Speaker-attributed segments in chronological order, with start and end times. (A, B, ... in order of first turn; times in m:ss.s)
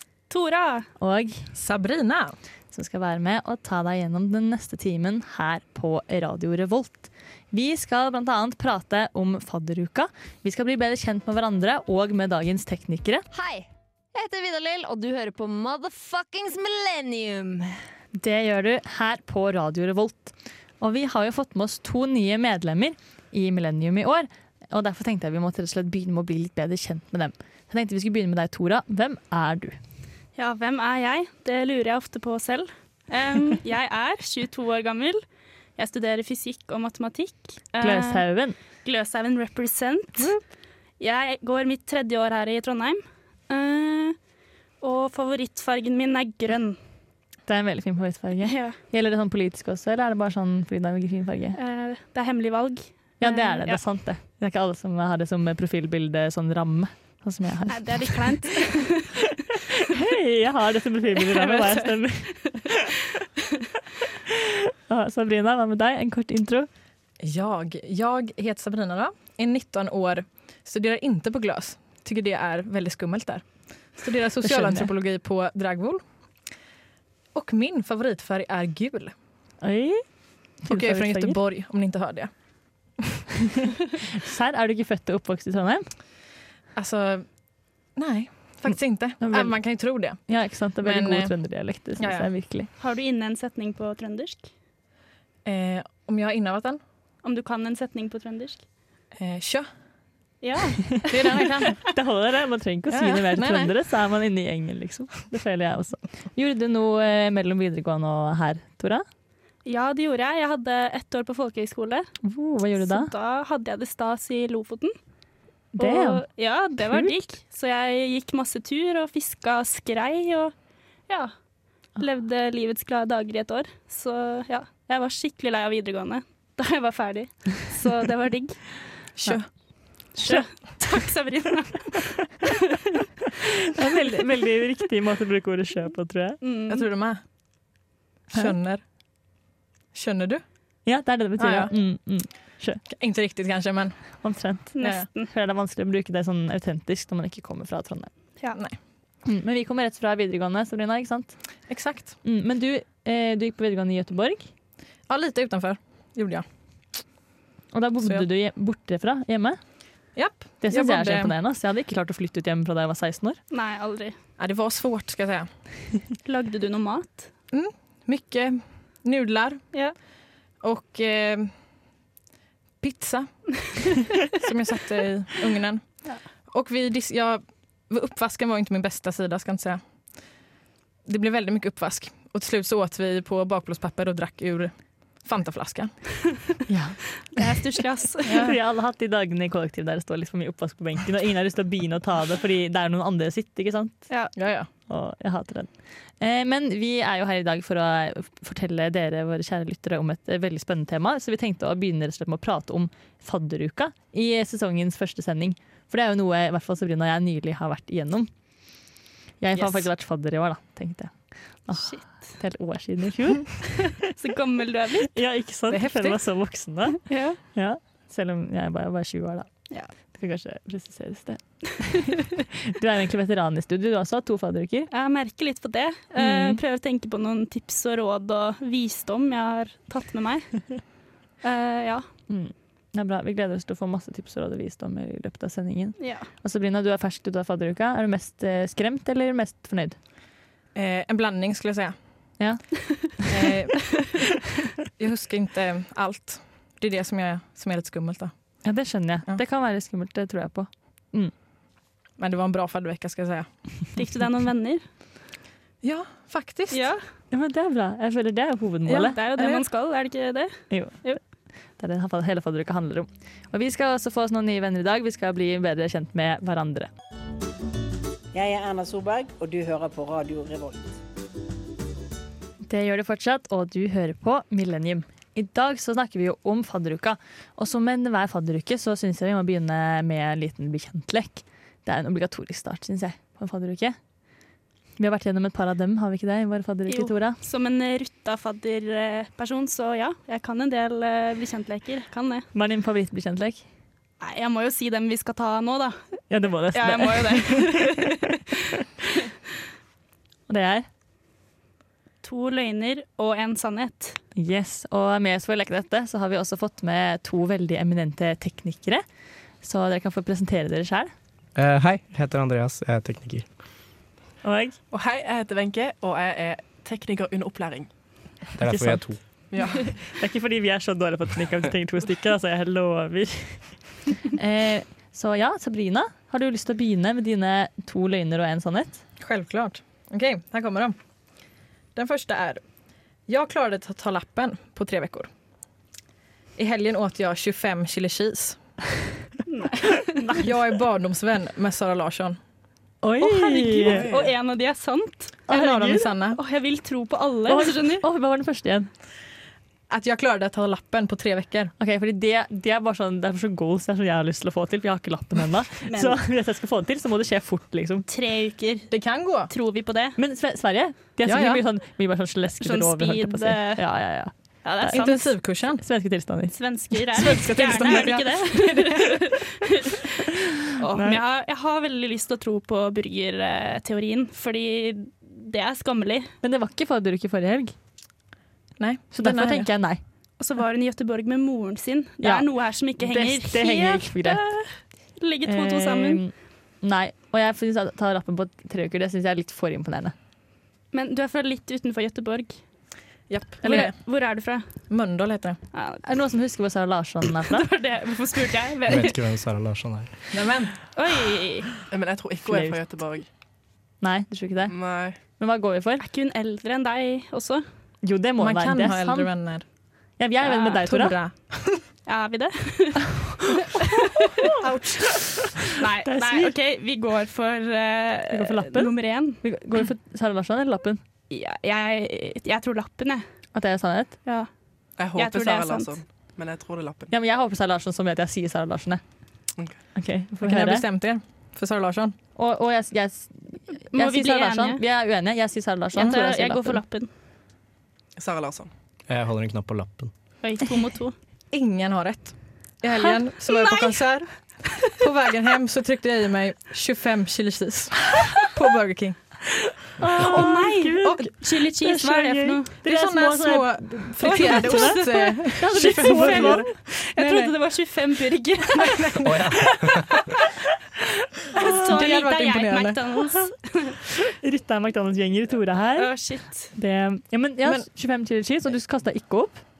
0:00.3-0:00.9 A
0:01.0-0:01.4 B
0:01.5-0:02.3 C
0:02.7-0:13.2 B
0:13.3-0:17.8 D
0:18.2-0:29.8 B
0:30.4-0:35.2 A
0:35.8-0:38.3 A
0:37.8-0:38.6 B
0:38.8-0:40.3 A
0:41.0-0:44.2 A
0:44.8-0:46.8 A
0:47.5-0:51.6 B
0:48.4-0:48.8 A
0:51.6-0:53.8 A
0:53.2-0:58.2 B
0:57.7-0:59.2 A
0:59.9-1:02.8 B
1:01.2-1:02.6 A
1:04.3-1:06.7 B
1:07.2-1:16.0 C
1:14.4-1:14.9 B
1:17.4-1:19.1 C
1:19.6-1:20.0 B
1:20.6-1:21.4 B
1:20.7-1:22.3 C
1:24.2-1:25.9 B
1:26.8-1:27.3 C
1:28.0-1:30.2 C
1:28.7-1:32.7 B
1:30.8-1:31.3 C
1:32.0-1:32.3 C
1:32.8-1:34.5 A
1:35.4-1:36.8 C
1:37.2-1:38.6 A
1:39.2-1:39.7 C
1:40.4-1:41.7 A
1:41.1-1:41.8 C
1:41.9-1:49.0 B
1:42.9-1:43.7 C
1:49.6-1:52.1 A
1:52.2-1:53.1 B
1:52.8-1:55.0 A
1:55.8-2:00.5 A
1:55.8-1:56.2 B
1:56.9-1:57.1 B
2:02.0-2:08.6 A
2:09.2-2:09.5 C
2:10.2-2:12.3 A
2:13.7-2:16.4 B
2:16.4-2:16.9 A
2:16.7-2:17.2 C
2:18.3-2:18.8 C
2:19.9-2:20.4 C
2:20.9-2:22.8 B
2:21.4-2:21.7 C
2:22.9-2:24.0 C
2:24.2-2:28.1 B
2:24.8-2:25.3 A
2:29.2-2:31.4 B
2:31.7-2:32.1 C
2:32.2-2:34.5 B
2:35.1-2:36.4 C
2:37.7-2:39.6 B
2:40.2-2:41.3 C
2:40.6-2:43.4 B
2:43.5-2:44.2 A
2:44.4-2:45.5 C
2:46.2-2:47.3 A
2:47.5-2:49.8 C
2:50.6-2:51.5 C
2:52.8-2:56.0 C
2:56.5-2:59.8 C
3:01.0-3:06.3 C
3:06.7-3:07.6 B
3:07.3-3:08.5 A
3:08.2-3:14.0 B
3:08.3-3:08.6 C
3:14.4-3:14.7 C
3:14.9-3:28.3 B
3:29.4-3:34.0 B
3:31.8-3:32.0 A
3:33.8-3:35.2 A
3:35.1-3:39.5 B
3:35.7-3:36.2 C
3:37.1-3:37.4 A
3:40.1-3:44.9 B
3:44.9-3:50.9 A
3:46.2-3:46.6 B
3:51.4-3:52.0 A
3:52.3-4:00.0 B
3:56.0-3:56.3 A
4:00.8-4:01.9 C
4:02.4-4:03.3 B
4:03.3-4:04.2 C
4:05.0-4:08.3 C
4:08.6-4:11.3 B
4:12.2-4:13.5 C
4:14.0-4:14.8 A
4:15.8-4:16.8 C
4:16.7-4:17.0 A
4:17.3-4:19.2 B
4:18.9-4:19.6 C
4:19.2-4:21.2 A
4:20.7-4:21.1 B
4:21.8-4:26.9 B
4:28.3-4:31.0 E
4:32.7-4:44.0 B
4:45.0-4:47.4 B
4:46.9-4:52.5 A
4:52.5-4:53.6 B
4:54.2-4:56.2 A
4:56.3-4:58.3 B
4:56.7-4:58.4 A
5:00.5-5:00.9 B
5:02.2-5:04.2 A
5:04.4-5:09.0 B
5:09.6-5:11.1 B
5:11.6-5:13.5 F
5:14.4-5:14.8 B
5:14.9-5:17.9 G
5:18.6-5:19.2 F
5:18.6-5:23.6 B
5:19.5-5:19.8 G
5:24.2-5:29.0 B
5:29.2-5:31.0 C
5:32.0-5:32.6 C
5:33.3-5:35.3 C
5:36.6-5:38.6 C
5:39.5-5:40.4 A
5:40.4-5:42.4 C
5:43.0-5:44.1 B
5:43.2-5:45.4 A
5:43.8-5:44.3 G
5:45.5-5:46.1 B
5:45.5-5:46.4 C
5:46.3-5:48.0 A
5:47.5-5:48.9 B
5:49.9-5:51.7 C
5:51.8-5:58.1 B
5:55.9-5:56.2 A
5:58.1-5:58.9 A
5:58.9-5:59.5 C
5:59.5-6:00.2 A
6:00.2-6:06.6 B
6:01.3-6:01.6 C
6:02.6-6:03.8 A
6:04.6-6:05.2 A
6:04.9-6:05.8 C
6:06.5-6:10.1 A
6:07.2-6:09.2 C
6:10.8-6:16.3 A
6:10.9-6:11.2 B
6:16.4-6:17.7 B
6:18.8-6:19.7 C
6:19.1-6:20.0 B
6:20.4-6:26.2 A
6:22.2-6:22.5 B
6:23.0-6:24.4 B
6:25.5-6:30.1 B
6:30.9-6:32.6 A
6:33.3-6:34.0 C
6:33.6-6:34.6 A
6:34.9-6:35.6 C
6:35.7-6:36.0 A
6:36.1-6:37.7 B
6:37.5-6:39.2 A
6:38.9-6:40.1 F
6:40.3-6:40.7 C
6:41.0-6:41.7 A
6:41.9-6:43.3 G
6:42.4-6:42.8 B
6:44.0-6:46.0 B
6:44.7-6:45.2 G
6:46.0-6:47.6 A
6:48.0-6:49.3 B
6:48.4-6:49.6 C
6:50.2-6:51.2 B
6:50.5-6:51.8 C
6:52.1-6:53.2 A
6:53.8-6:54.3 A
6:54.6-6:55.0 C
6:55.0-6:55.5 B
6:55.8-6:59.4 A
6:56.0-6:56.5 B
6:58.3-7:01.0 B
7:01.3-7:03.2 A
7:03.6-7:04.2 B
7:05.0-7:07.1 G
7:05.2-7:06.0 A
7:07.1-7:09.0 B
7:10.0-7:10.8 B
7:10.4-7:12.2 C
7:12.4-7:16.8 B
7:13.9-7:14.8 A
7:15.9-7:17.1 A
7:18.2-7:18.7 G
7:19.1-7:20.1 F
7:20.4-7:21.2 A
7:21.5-7:29.2 C
7:23.5-7:24.1 A
7:30.0-7:36.7 B
7:30.2-7:32.7 A
7:32.8-7:37.5 C
7:34.2-7:35.2 A
7:35.7-7:39.6 A
7:38.8-7:39.3 C
7:39.2-7:40.3 F
7:41.5-7:44.0 A
7:41.6-7:43.0 C
7:41.6-7:41.9 B
7:44.3-7:46.1 B
7:46.0-7:46.7 A
7:46.7-7:49.6 B